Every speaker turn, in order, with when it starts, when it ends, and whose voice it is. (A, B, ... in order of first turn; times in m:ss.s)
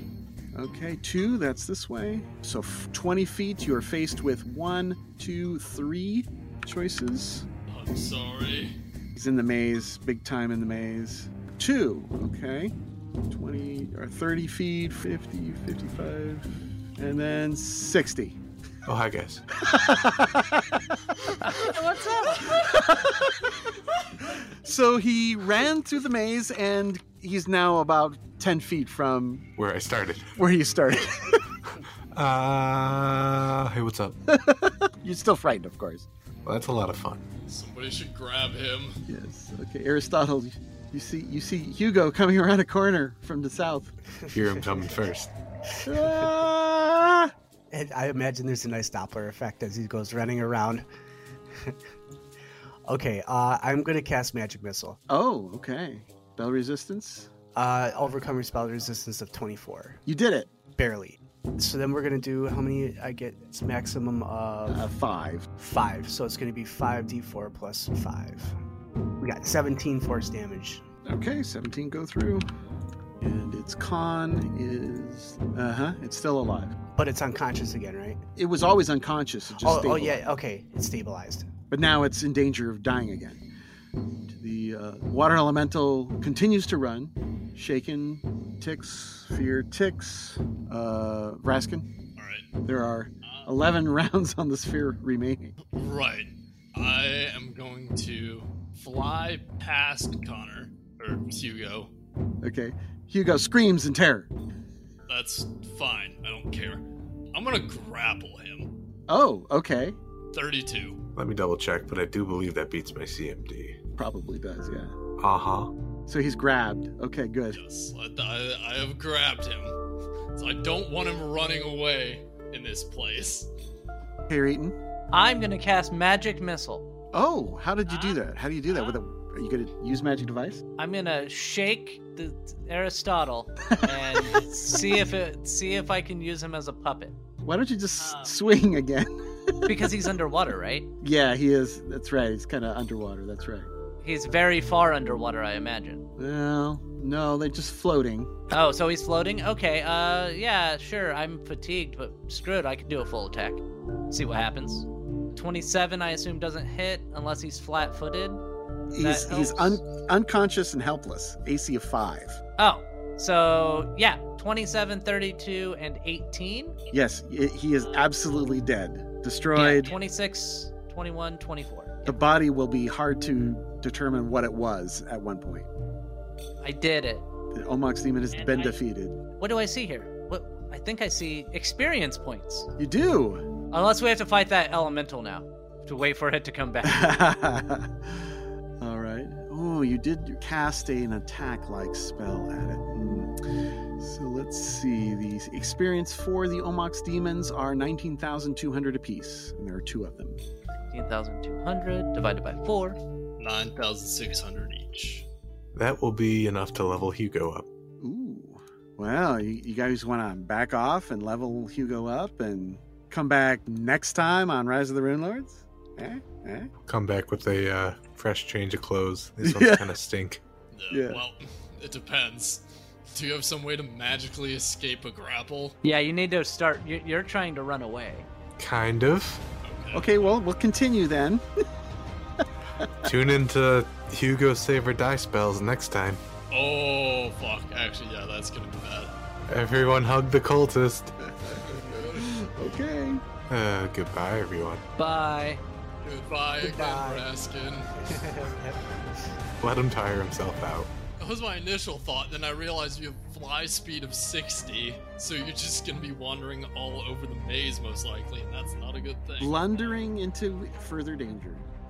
0:00.5-0:07.5 A
0:07.7-0:08.8 B
0:09.2-0:12.7 A
0:13.3-0:18.4 A
0:18.8-0:19.4 C
0:19.6-0:21.0 A
0:21.4-0:22.6 D
0:22.4-0:23.7 A
0:24.2-0:29.5 A
0:29.6-0:30.4 C
0:30.4-0:31.6 A
0:32.1-0:34.2 C
0:34.3-0:36.1 A
0:36.4-0:37.2 C
0:37.4-0:39.0 B
0:39.1-0:43.9 A
0:44.2-0:44.9 E
0:44.3-0:45.3 C
0:45.7-0:46.3 E
0:45.8-0:47.3 A
0:47.7-0:50.8 E
0:52.9-0:55.0 E
0:55.1-0:57.3 A
0:57.6-1:00.0 E
1:00.0-1:00.5 A
1:00.7-1:04.9 E
1:04.6-1:05.5 A
1:05.6-1:08.5 E
1:09.2-1:10.8 E
1:11.0-1:12.4 A
1:13.2-1:16.7 A
1:17.0-1:18.2 E
1:18.4-1:20.2 A
1:19.6-1:21.5 E
1:21.7-1:23.4 A
1:24.3-1:31.9 A
1:32.2-1:32.4 B
1:32.6-1:35.6 A
1:33.2-1:33.5 B
1:35.6-1:41.9 B
1:42.4-1:44.3 A
1:45.1-1:48.7 B
1:49.1-1:50.0 A
1:50.3-1:51.0 B
1:51.2-1:53.8 C
1:54.0-1:54.9 A
1:55.2-1:55.7 C
1:56.1-1:57.6 A
1:57.5-1:59.8 B
2:00.3-2:03.5 B
2:04.3-2:04.8 A
2:05.1-2:06.8 D
2:07.1-2:10.6 A
2:10.8-2:17.2 D
2:13.8-2:14.4 A
2:17.4-2:19.9 A
2:19.6-2:20.9 D
2:21.0-2:23.7 A
2:24.0-2:26.1 D
2:26.2-2:28.3 A
2:28.5-2:38.4 D
2:38.9-2:42.4 A
2:39.0-2:39.8 D
2:42.6-2:46.8 D
2:46.9-2:50.0 A
2:49.5-2:52.2 D
2:52.0-2:55.7 A
2:56.6-2:57.2 D
2:57.5-2:59.2 A
2:59.4-3:02.7 D
3:02.8-3:03.5 A
3:03.7-3:07.1 D
3:06.8-3:13.4 A
3:14.0-3:20.4 A
3:20.9-3:23.0 D
3:23.4-3:25.2 B
3:25.7-3:27.6 C
3:28.0-3:36.7 A
3:36.8-3:40.4 C
3:39.4-3:39.9 A
3:40.7-3:45.8 B
3:40.9-3:41.2 A
3:45.8-3:48.3 D
3:48.6-3:49.4 C
3:49.6-3:50.3 B
3:49.9-3:51.4 A
3:52.4-3:52.9 A
3:53.0-3:56.2 C
3:56.5-3:59.1 B
3:59.5-4:01.2 C
4:01.5-4:02.3 B
4:02.1-4:03.2 A
4:03.5-4:04.8 C
4:05.0-4:05.6 D
4:06.0-4:08.2 B
4:06.6-4:07.3 E
4:08.0-4:08.8 E
4:09.6-4:10.9 C
4:11.2-4:20.0 B
4:19.4-4:21.6 A